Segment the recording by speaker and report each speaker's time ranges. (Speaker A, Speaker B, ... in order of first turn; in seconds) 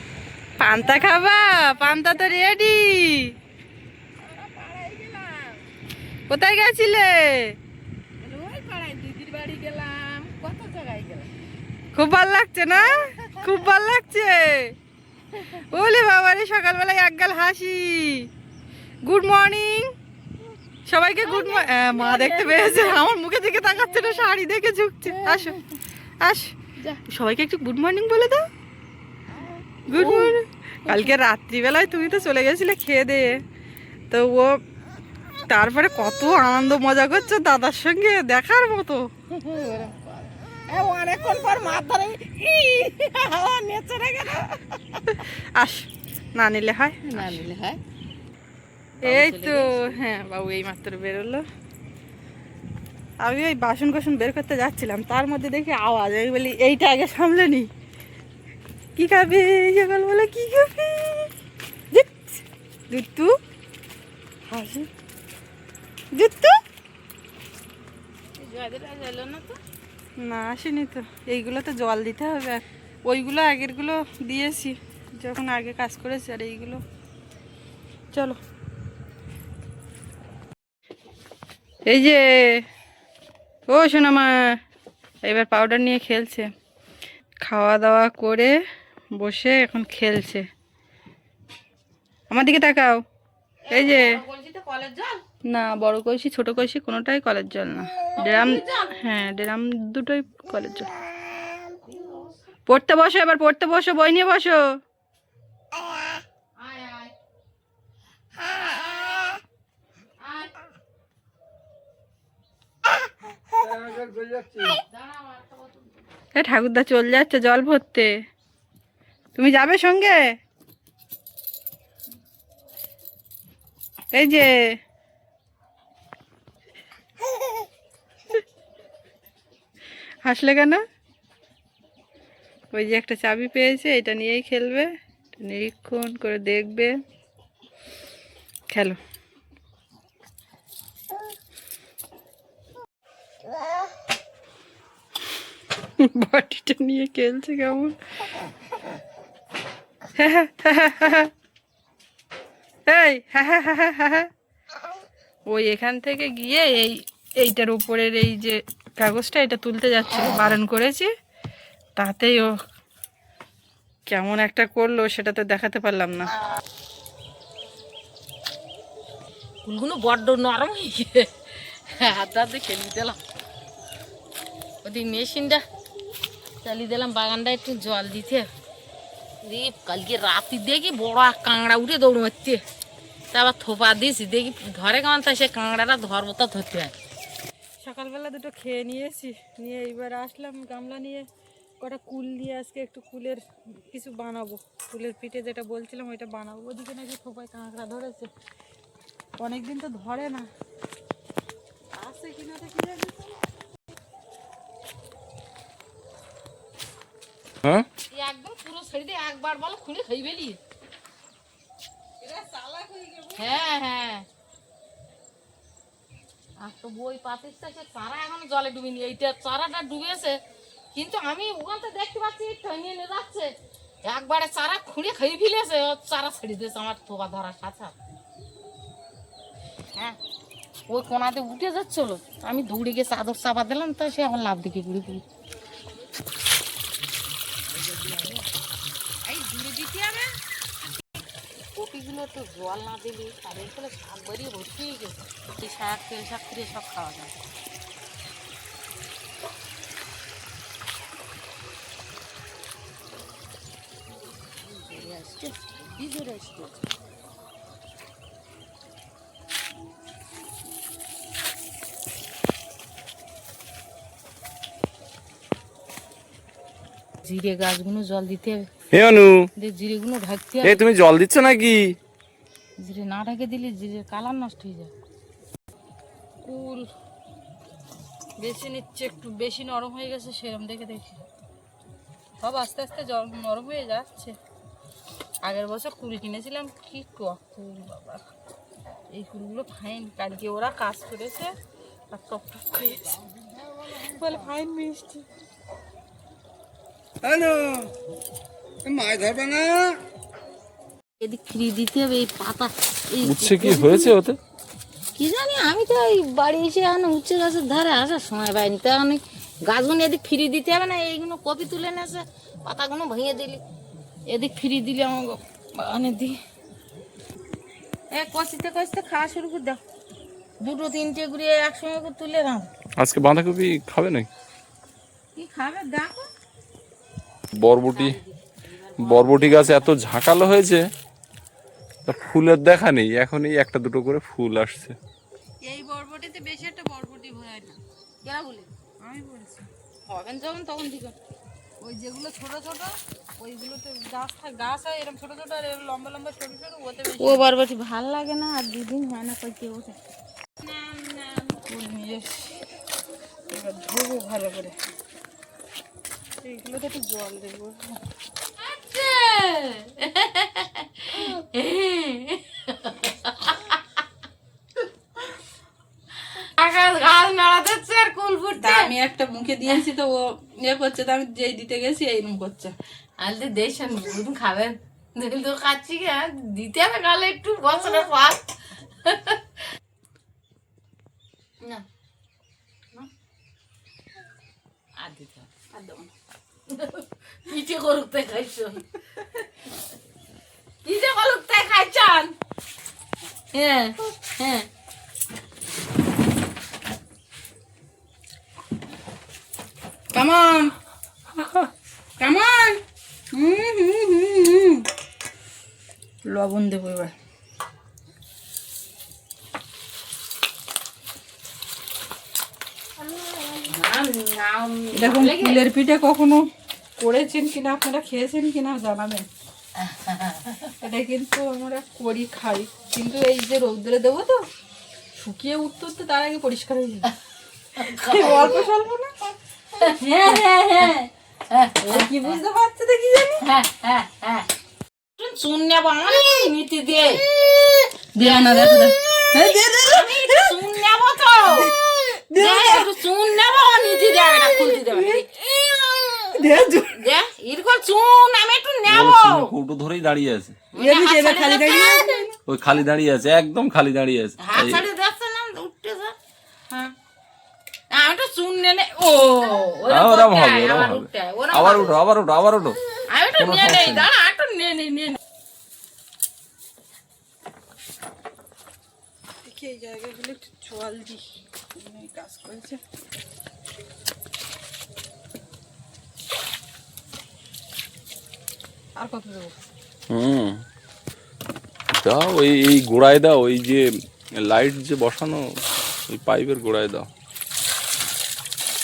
Speaker A: 0.6-3.3, 6.3-7.5, 11.9-14.7, 15.7-18.3, 19.0-19.9, 20.9-25.6, 26.2-28.4, 29.9-33.4, 34.1-34.5, 35.5-39.1, 45.1-47.4, 49.0-51.4, 53.2-57.7, 59.0-61.3, 61.9-63.3, 64.5-64.9, 66.1-66.6, 70.2-76.8, 78.1-78.4, 81.9-82.6, 83.7-84.5, 85.2-86.5, 87.4-88.5, 89.2-90.4, 92.3-93.0, 93.7-94.2, 95.5-100.9, 102.7-104.6, 116.3-118.1, 119.3-120.2, 124.1-124.5, 130.2-130.8, 132.7-136.9, 138.7-139.0, 146.0-147.9, 150.2-151.3, 152.9-154.3, 155.5-161.1, 161.9-162.6, 164.1-166.3, 187.8-191.3, 191.8-198.3, 199.4-200.5, 201.9-203.4, 212.2-213.5, 276.4-276.9, 278.4-281.3, 282.4-284.3, 285.4-288.2, 289.1-291.5, 292.1-293.2, 293.8-295.2, 297.3-297.8, 298.9-299.7, 335.6-337.8, 339.0-339.7, 341.8-347.5, 351.6-352.6, 353.5-354.7, 356.4-357.9, 368.6-372.7, 385.7-386.1, 400.1-400.7, 402.2-402.7, 403.3-404.8, 406.2-407.1, 414.9-416.4, 417.0-419.3, 420.8-424.4, 425.2-427.1, 427.8-429.1, 429.8-431.1, 431.8-433.4, 438.1-440.6, 441.5-442.9, 444.1-445.2, 446.3-447.0, 450.8-452.3, 469.4-471.2, 471.8-472.8, 479.0-479.5
Speaker B: 0.8-2.1, 4.2-5.6, 8.2-11.3, 12.8-13.7, 21.2-24.2, 25.1-25.6, 29.9-30.3, 30.9-31.1, 39.3-44.6, 47.1-47.8, 49.0-50.0, 68.4-69.6, 93.6-95.2, 98.2-98.9, 101.9-102.3, 106.6-107.1, 108.7-109.3, 110.2-110.5, 114.5-116.0, 169.6-171.3, 171.9-173.2, 174.8-175.6, 176.6-178.5, 179.4-182.6, 183.3-186.9, 208.1-210.6, 213.3-214.2, 216.6-220.4, 220.9-223.5, 224.0-227.9, 230.9-235.2, 239.2-240.3, 241.7-247.3, 254.7-256.8, 267.2-268.7, 269.6-270.8, 272.8-274.9, 301.2-304.1, 305.1-313.6, 314.3-316.4, 318.1-319.8, 320.6-322.7, 325.4-326.3, 327.9-330.0, 338.2-338.7, 340.1-341.1, 347.2-350.0, 350.6-351.6, 358.6-363.8, 366.3-368.9, 373.2-378.4, 379.0-379.4, 385.0-385.5, 386.7-388.8, 390.8-392.3, 393.5-394.7, 413.4-415.6, 419.8-420.7, 427.8-428.6, 429.8-431.0, 431.5-432.4, 433.4-434.5, 435.2-437.2, 438.3-438.9, 439.8-441.7, 442.4-449.5, 450.7-452.2, 454.4-456.1, 457.9-462.0, 463.1-465.2
Speaker C: 268.9-269.5, 270.6-271.9, 303.2-304.4, 323.0-324.3, 327.5-328.2, 329.0-330.8, 332.1-334.9, 448.9-450.6, 452.5-454.8, 459.9-462.8, 463.4-464.1, 480.1-480.6, 482.0-483.8, 484.4-485.4, 486.1-487.1